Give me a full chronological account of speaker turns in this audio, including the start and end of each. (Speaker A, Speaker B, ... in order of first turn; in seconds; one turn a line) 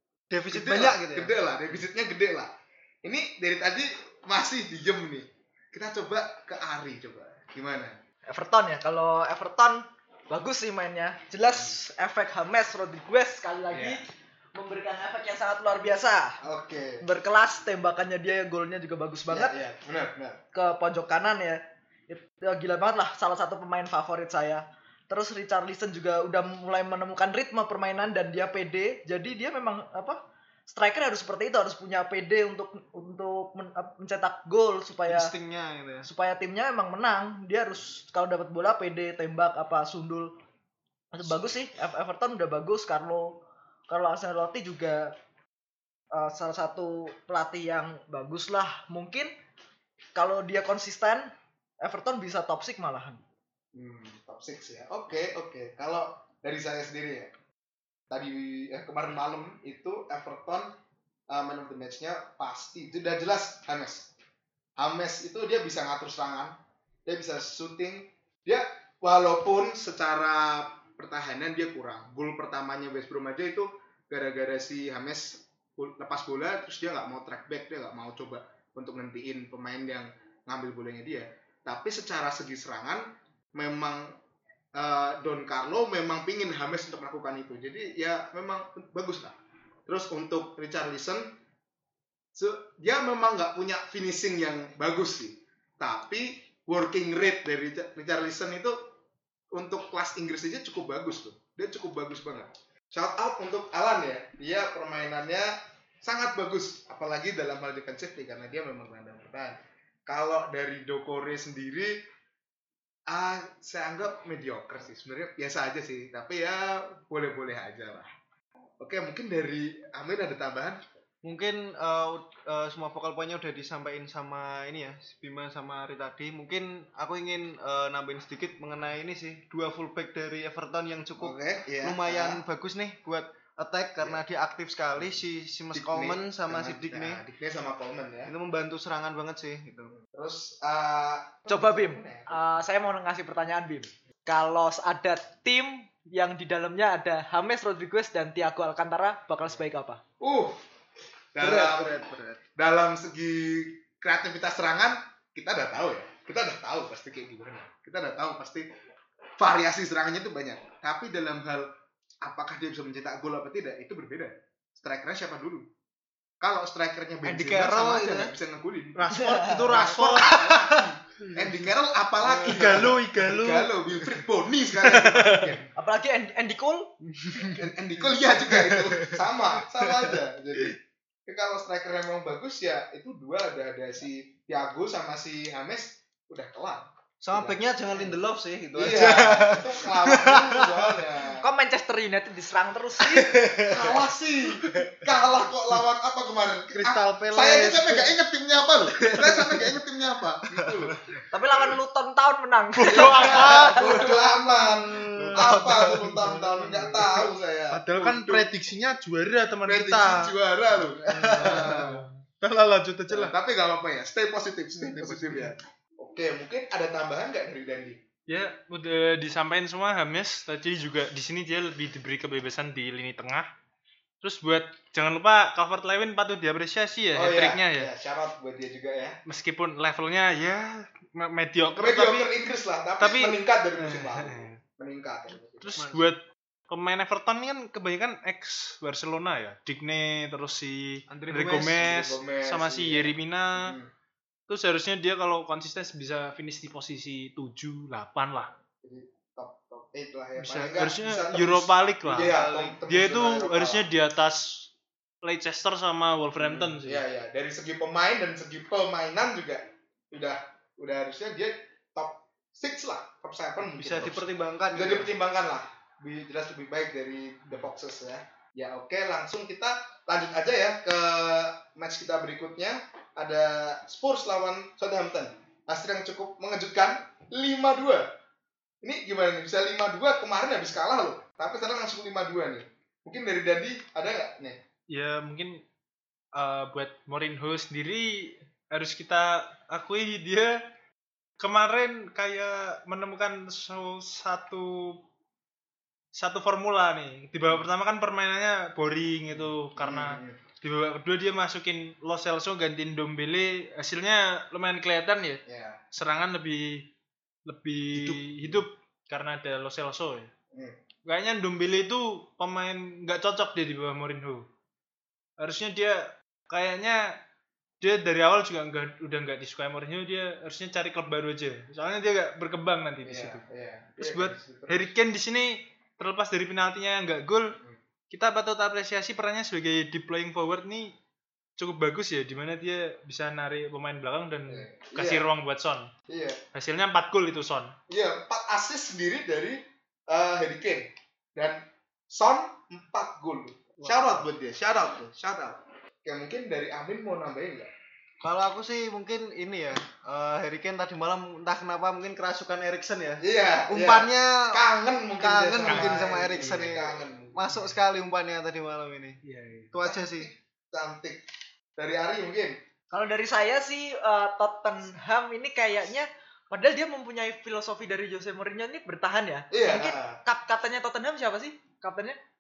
Speaker A: 0.3-1.3
Speaker B: 0.5-2.5
Speaker B: 3.0-8.0
Speaker C: 8.3-16.4
Speaker B: 13.7-14.0
Speaker B: 16.4-17.1
Speaker C: 17.0-19.6
Speaker B: 19.3-20.4
Speaker C: 20.5-35.3
Speaker A: 35.1-36.1
Speaker C: 36.0-40.3
Speaker C: 41.1-45.1
Speaker C: 46.1-49.3
Speaker C: 50.1-53.2
Speaker B: 53.8-57.3
Speaker B: 58.1-60.8
Speaker B: 61.3-64.1
Speaker B: 64.8-84.2
Speaker B: 84.8-91.3
Speaker B: 92.3-98.9
Speaker B: 99.5-112.0
Speaker B: 113.1-118.1
Speaker B: 118.8-120.8
Speaker A: 121.2-137.2
Speaker B: 131.2-132.4
Speaker B: 135.7-138.3
Speaker A: 138.3-139.9
Speaker B: 140.0-142.4
Speaker C: 141.5-150.0
Speaker B: 150.2-150.6
Speaker B: 151.3-152.0
Speaker A: 151.4-152.4
Speaker B: 152.6-158.7
Speaker B: 159.4-161.7
Speaker B: 162.2-165.7
Speaker B: 166.4-175.7
Speaker A: 167.2-168.3
Speaker D: 168.9-170.7
Speaker C: 169.1-169.7
Speaker A: 170.1-170.6
Speaker D: 172.2-173.7
Speaker A: 172.3-172.9
Speaker D: 174.8-175.6
Speaker C: 175.8-176.9
Speaker A: 177.2-180.1
Speaker B: 177.5-188.2
Speaker A: 187.2-191.0
Speaker B: 188.8-191.5
Speaker C: 191.4-193.5
Speaker A: 193.0-194.1
Speaker B: 193.6-201.0
Speaker A: 194.7-195.0
Speaker D: 196.8-197.9
Speaker A: 199.0-199.8
Speaker A: 200.6-201.2
Speaker C: 201.3-204.1
Speaker D: 202.8-210.3
Speaker B: 202.8-208.5
Speaker A: 205.2-207.1
Speaker B: 209.7-212.0
Speaker A: 211.1-211.9
Speaker D: 211.1-213.3
Speaker B: 213.1-218.0
Speaker D: 215.1-215.4
Speaker D: 218.3-223.5
Speaker D: 224.2-227.9
Speaker B: 227.2-229.2
Speaker D: 229.3-232.3
Speaker B: 231.8-235.8
Speaker D: 233.0-234.6
Speaker D: 235.6-243.8
Speaker A: 235.8-236.1
Speaker A: 241.1-241.8
Speaker B: 241.7-243.9
Speaker D: 244.5-248.5
Speaker B: 248.8-253.8
Speaker D: 250.4-252.4
Speaker A: 252.1-252.8
Speaker D: 252.9-254.7
Speaker D: 255.2-257.0
Speaker B: 256.4-278.1
Speaker A: 263.8-265.1
Speaker B: 278.8-284.6
Speaker D: 284.9-285.6
Speaker D: 286.4-290.6
Speaker D: 291.4-295.0
Speaker D: 296.1-306.9
Speaker B: 299.8-300.4
Speaker B: 305.5-305.8
Speaker D: 307.5-310.3
Speaker B: 308.0-308.6
Speaker B: 310.5-310.8
Speaker D: 311.1-314.5
Speaker D: 315.4-317.2
Speaker D: 317.8-323.4
Speaker B: 323.0-324.9
Speaker D: 324.0-327.6
Speaker D: 328.1-330.9
Speaker D: 331.6-335.9
Speaker B: 334.5-335.3
Speaker B: 336.1-336.4
Speaker D: 336.5-337.8
Speaker B: 337.9-347.7
Speaker A: 348.2-354.6
Speaker B: 353.2-357.4
Speaker A: 355.2-359.2
Speaker D: 355.7-356.1
Speaker D: 359.2-359.7
Speaker A: 359.7-360.3
Speaker B: 359.8-361.2
Speaker B: 361.8-362.6
Speaker C: 362.9-372.2
Speaker B: 369.5-370.2